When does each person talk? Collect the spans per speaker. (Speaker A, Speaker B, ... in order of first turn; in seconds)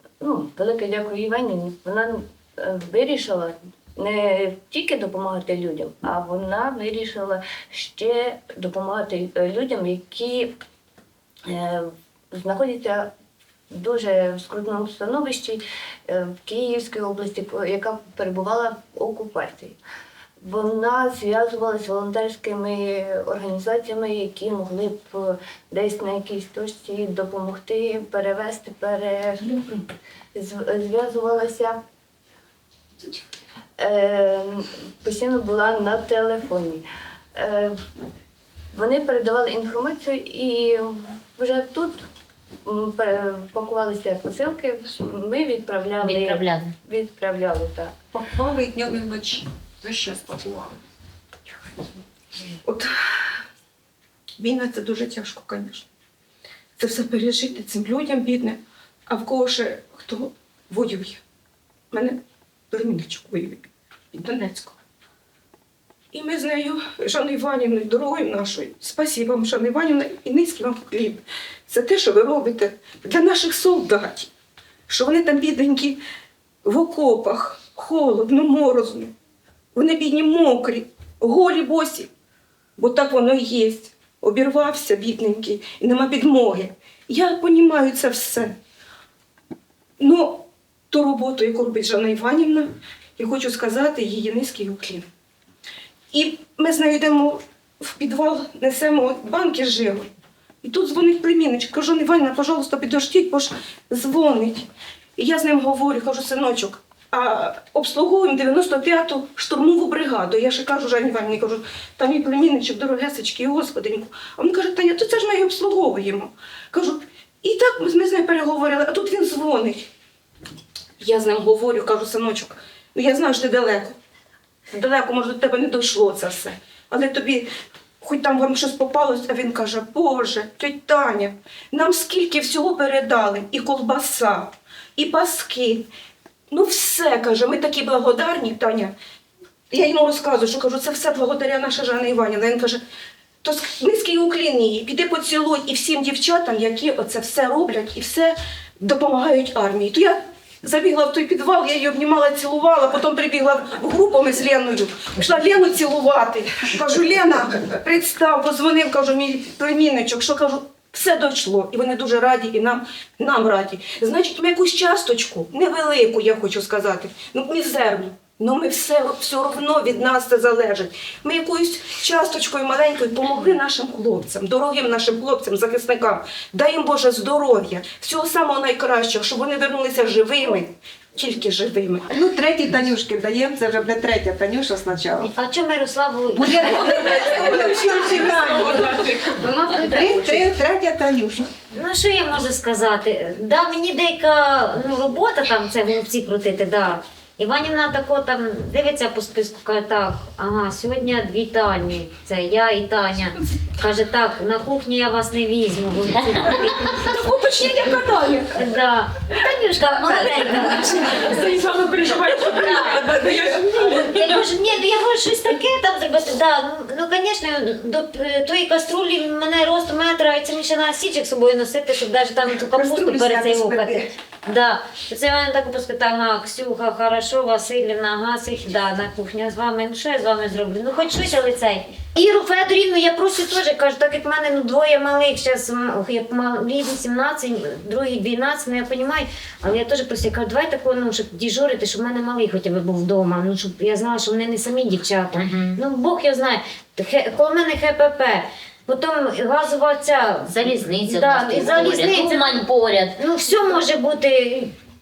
Speaker A: 0.2-10.6, 11.4-13.1, 13.7-19.8, 20.4-29.8, 30.3-31.8, 33.8-36.8, 37.4-37.8, 38.7-42.0, 42.6-47.9
Speaker B: 46.0-46.7, 245.3-245.8, 250.5-253.2
Speaker C: 48.1-50.8, 182.1-185.3, 186.3-189.1, 189.7-191.5, 222.7-224.1
Speaker D: 52.6-52.9, 54.4-55.9, 56.8-61.2, 61.9-62.2, 62.7-64.8, 66.1-74.3, 74.9-76.0, 76.6-79.1, 79.7-82.1, 82.8-88.5, 90.0-95.0, 96.1-100.1, 100.6-119.8, 121.0-124.0, 124.7-127.5, 128.0-135.9, 136.5-138.9, 139.7-142.8, 143.4-182.1, 186.9-190.5, 207.0-208.5, 210.1-213.7
Speaker E: 185.3-187.5, 191.7-207.1, 208.5-211.5, 212.4-252.6, 253.2-254.7